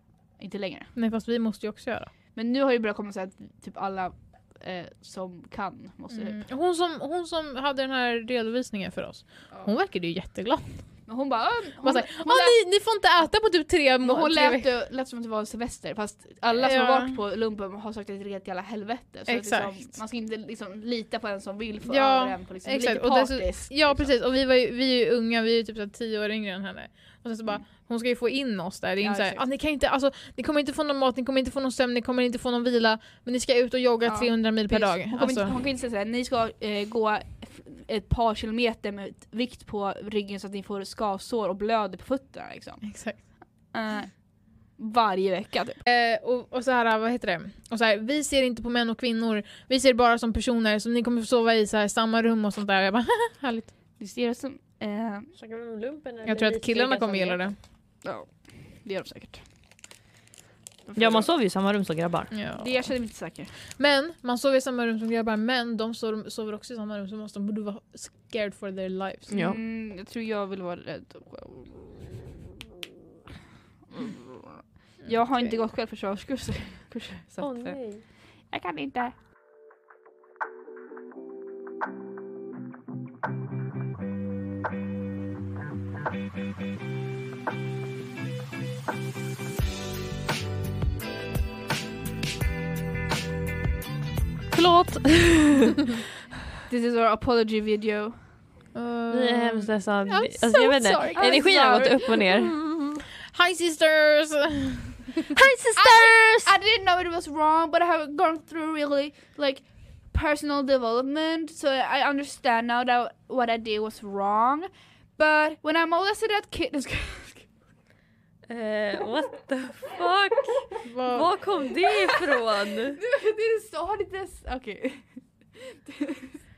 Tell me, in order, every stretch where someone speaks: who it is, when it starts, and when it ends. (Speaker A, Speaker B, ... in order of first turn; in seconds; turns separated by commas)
Speaker A: 0.4-0.9, Speaker B: 1.0-2.1, Speaker A: 2.4-6.5, Speaker B: 6.1-10.8, Speaker A: 11.1-12.6, Speaker B: 11.8-14.7, Speaker A: 14.0-24.1, Speaker B: 16.6-17.2, Speaker B: 19.3-19.9, Speaker B: 21.9-35.5, Speaker A: 29.0-29.4, Speaker A: 34.1-43.2, Speaker B: 42.8-43.2, Speaker A: 43.7-44.2, Speaker A: 44.8-45.8, Speaker B: 45.9-53.7, Speaker A: 54.0-55.3, Speaker C: 55.4-57.4, Speaker B: 56.3-57.6, Speaker A: 58.0-59.4, Speaker A: 60.9-61.3, Speaker C: 61.0-62.3, Speaker B: 62.3-62.9, Speaker A: 62.6-63.5, Speaker B: 63.8-69.5, Speaker C: 69.3-69.6, Speaker A: 69.3-72.5, Speaker A: 73.9-79.2, Speaker C: 77.4-78.0, Speaker C: 94.5-95.8, Speaker A: 96.7-98.2, Speaker B: 98.8-101.6, Speaker C: 99.1-102.7, Speaker A: 101.1-102.2, Speaker B: 103.2-105.4, Speaker C: 105.3-106.5, Speaker A: 105.8-117.5, Speaker C: 118.5-123.0, Speaker B: 120.8-121.3, Speaker A: 123.0-125.1, Speaker A: 125.6-126.4